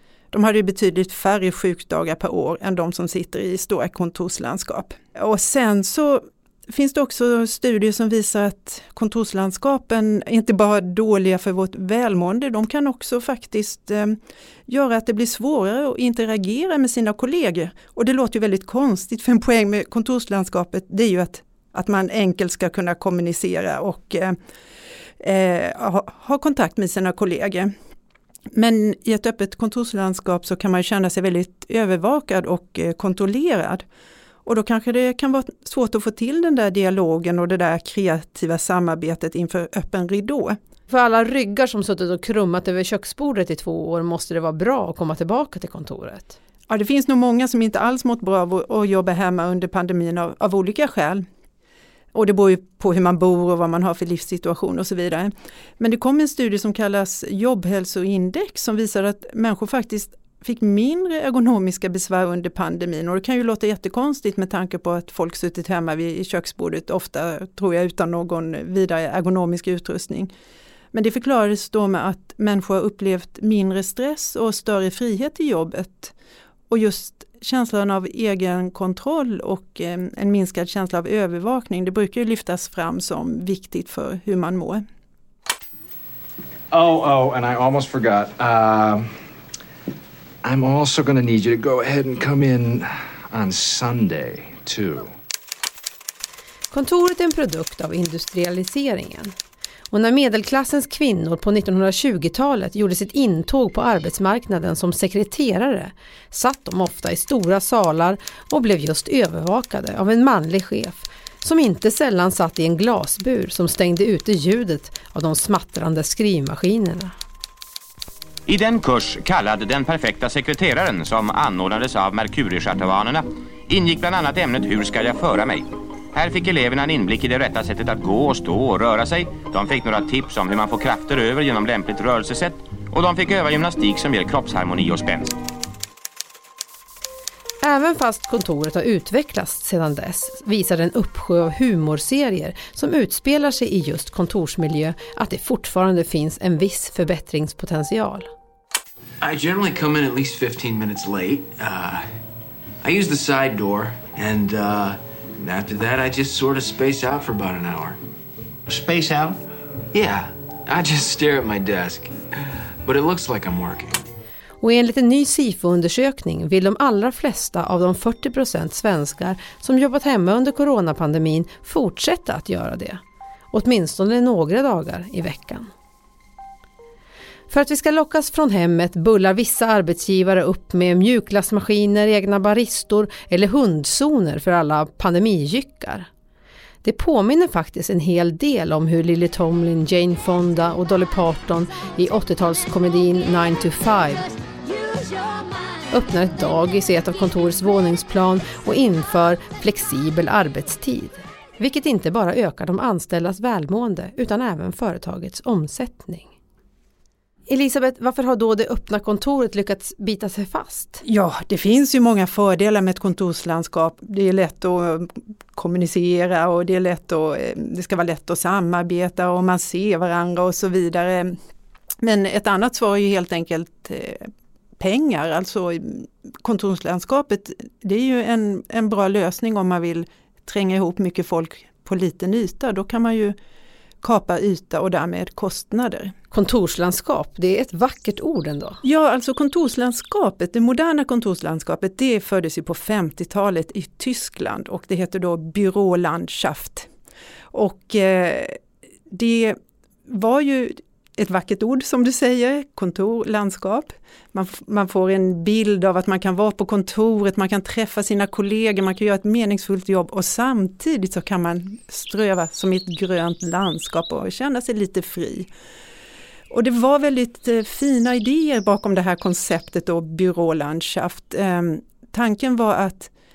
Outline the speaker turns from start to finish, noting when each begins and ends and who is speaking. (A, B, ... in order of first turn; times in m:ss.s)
0:00.3-0:24.4 A
0:25.2-0:27.7 A
0:28.5-0:33.8 A
0:34.4-0:40.6 A
0:40.9-0:46.4 B
0:46.7-0:51.2 A
0:52.1-1:10.3 A
1:10.9-1:16.1 A
1:16.7-1:24.8 A
1:26.7-1:29.1 C
1:30.4-1:35.1 C
1:36.7-1:39.3 B
1:39.9-1:57.2 B
1:58.5-2:15.3 D
2:17.6-2:28.3 B
2:29.2-2:32.0 E
2:32.8-2:38.0 E
2:38.8-2:39.4 E
2:39.9-2:42.2 E
2:42.8-2:44.0 E
2:44.6-2:53.0 B
2:53.5-2:55.7 B
2:57.5-3:06.1 B
3:06.8-3:14.2 B
3:15.9-3:26.3 B
3:27.5-3:31.0 B
3:31.0-3:41.4 A
3:42.0-3:44.3 A
3:44.8-3:53.4 A
3:54.0-3:56.1 A
3:56.3-3:58.8 B
3:58.8-4:06.9 A
4:07.5-4:08.6 A
4:09.1-4:09.6 A
4:10.1-4:25.5 A
4:26.5-4:33.1 A